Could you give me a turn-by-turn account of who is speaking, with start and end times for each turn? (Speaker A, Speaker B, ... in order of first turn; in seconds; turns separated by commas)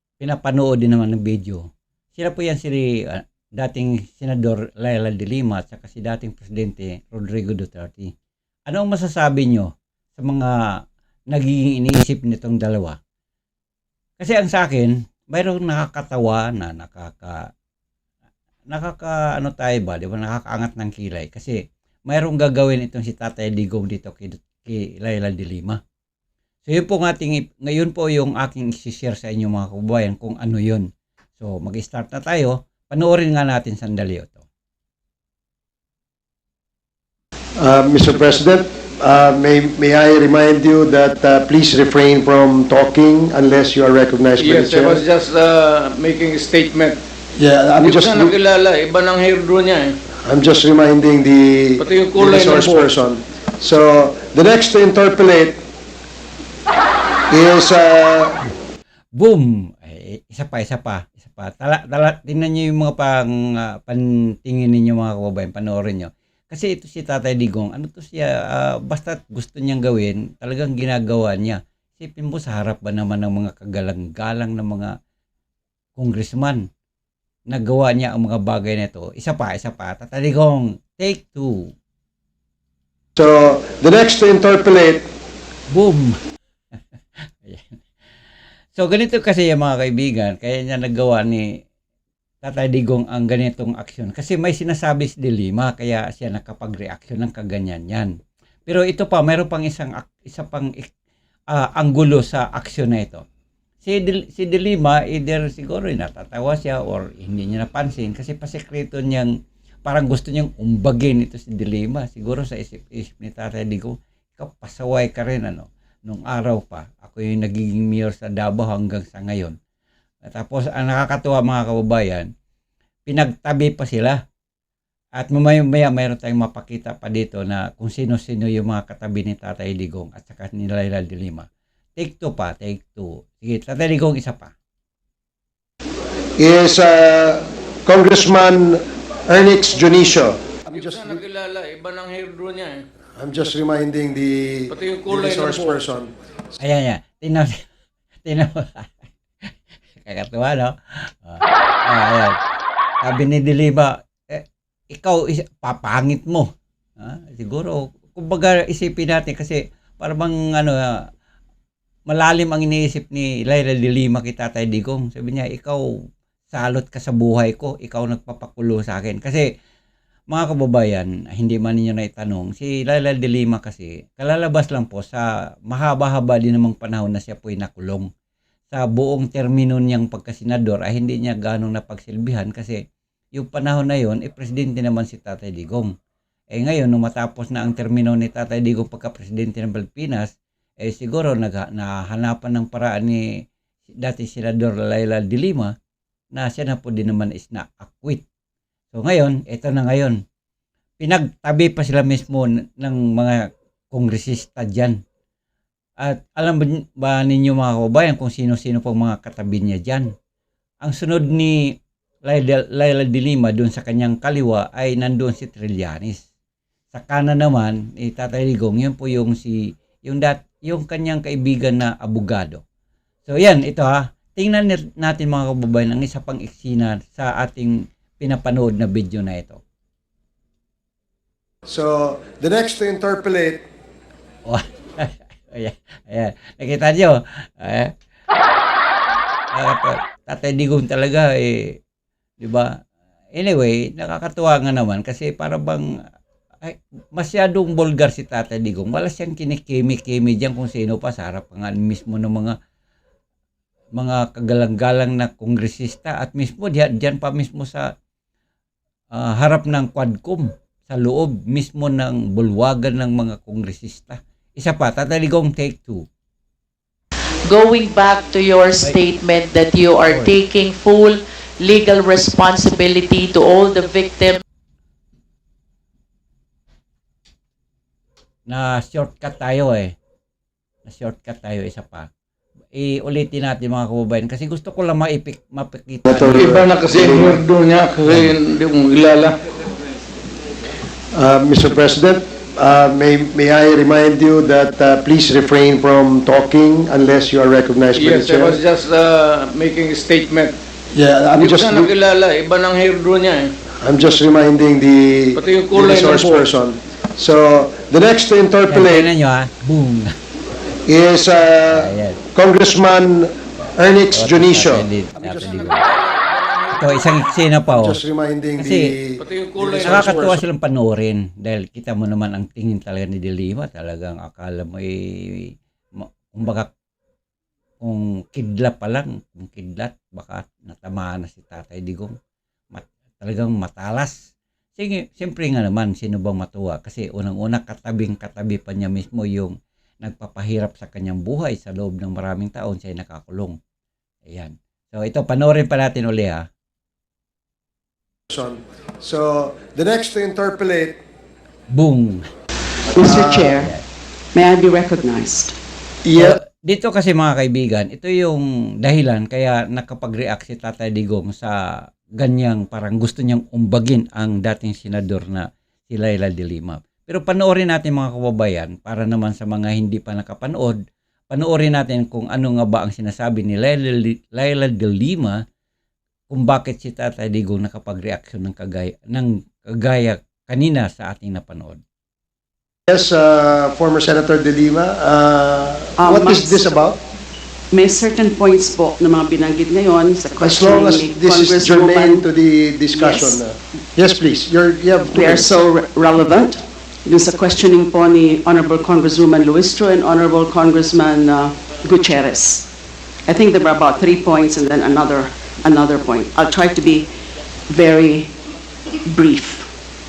Speaker A: 0.2-1.6, Speaker A: 2.1-8.1, Speaker A: 8.7-10.7, Speaker A: 11.3-13.0, Speaker A: 14.2-17.5, Speaker A: 18.7-25.8, Speaker A: 26.7-30.9, Speaker A: 31.4-34.5, Speaker B: 37.6-45.0, Speaker C: 44.4-47.0, Speaker B: 47.4-48.3, Speaker C: 47.8-49.9, Speaker B: 50.2-55.6, Speaker C: 51.8-52.9, Speaker B: 57.3-58.4, Speaker A: 59.1-74.9, Speaker A: 76.0-76.6, Speaker A: 77.5-81.7, Speaker B: 83.2-85.0, Speaker A: 85.7-86.2, Speaker A: 87.3-87.8, Speaker A: 88.7-91.5, Speaker A: 92.4-98.1, Speaker A: 98.7-100.9, Speaker A: 101.5-103.2, Speaker A: 103.8-109.3, Speaker A: 109.8-119.5, Speaker A: 120.3-122.3, Speaker A: 123.1-124.2, Speaker A: 125.2-134.5, Speaker B: 136.4-141.2, Speaker C: 140.7-142.8, Speaker B: 143.2-146.1, Speaker C: 144.7-145.8, Speaker A: 146.6-147.6, Speaker A: 148.2-152.3, Speaker A: 153.0-161.0, Speaker A: 162.1-165.8, Speaker A: 166.5-169.5, Speaker A: 170.3-178.1, Speaker A: 178.7-182.8, Speaker A: 183.3-185.9, Speaker A: 186.5-193.2, Speaker A: 194.0-195.7, Speaker A: 196.3-198.2, Speaker A: 198.9-200.2, Speaker A: 201.0-205.0, Speaker A: 206.0-210.1, Speaker A: 210.8-211.6, Speaker A: 212.2-216.2, Speaker A: 216.9-222.6, Speaker A: 223.2-229.6, Speaker B: 231.7-233.6, Speaker A: 234.4-237.9, Speaker A: 239.5-241.8, Speaker A: 242.4-242.7, Speaker A: 243.3-245.9, Speaker A: 246.6-252.6, Speaker A: 253.9-257.9, Speaker A: 259.1-266.1, Speaker D: 267.4-274.4, Speaker A: 270.1-270.3, Speaker A: 278.5-279.9, Speaker A: 280.9-282.1, Speaker A: 282.7-286.6, Speaker B: 286.1-287.4, Speaker C: 286.3-289.3, Speaker A: 288.1-288.4, Speaker B: 291.1-298.6, Speaker C: 297.9-300.6, Speaker B: 300.9-301.9, Speaker C: 301.4-303.5, Speaker B: 303.8-309.1, Speaker C: 305.4-306.5, Speaker A: 308.7-310.1, Speaker B: 310.9-315.9, Speaker A: 311.7-312.2, Speaker A: 314.1-315.9, Speaker C: 315.3-317.0, Speaker A: 316.8-318.0, Speaker B: 317.7-320.4, Speaker A: 318.6-318.9, Speaker C: 319.2-320.2, Speaker A: 319.8-326.7, Speaker A: 327.8-332.1, Speaker A: 332.7-334.2, Speaker A: 334.8-343.6, Speaker A: 344.2-346.4, Speaker B: 348.3-351.0, Speaker A: 351.7-352.2, Speaker E: 352.9-353.7, Speaker B: 352.9-353.6, Speaker A: 353.6-353.8, Speaker E: 354.3-355.6, Speaker B: 356.0-356.4, Speaker A: 356.2-361.6, Speaker A: 362.2-370.8, Speaker A: 371.3-375.4, Speaker A: 376.3-381.8, Speaker B: 382.9-387.0, Speaker E: 386.0-386.7, Speaker E: 387.7-392.2, Speaker B: 390.4-395.5, Speaker E: 392.9-393.4, Speaker E: 395.1-402.7, Speaker E: 403.3-407.1, Speaker E: 407.7-408.3, Speaker E: 409.1-409.7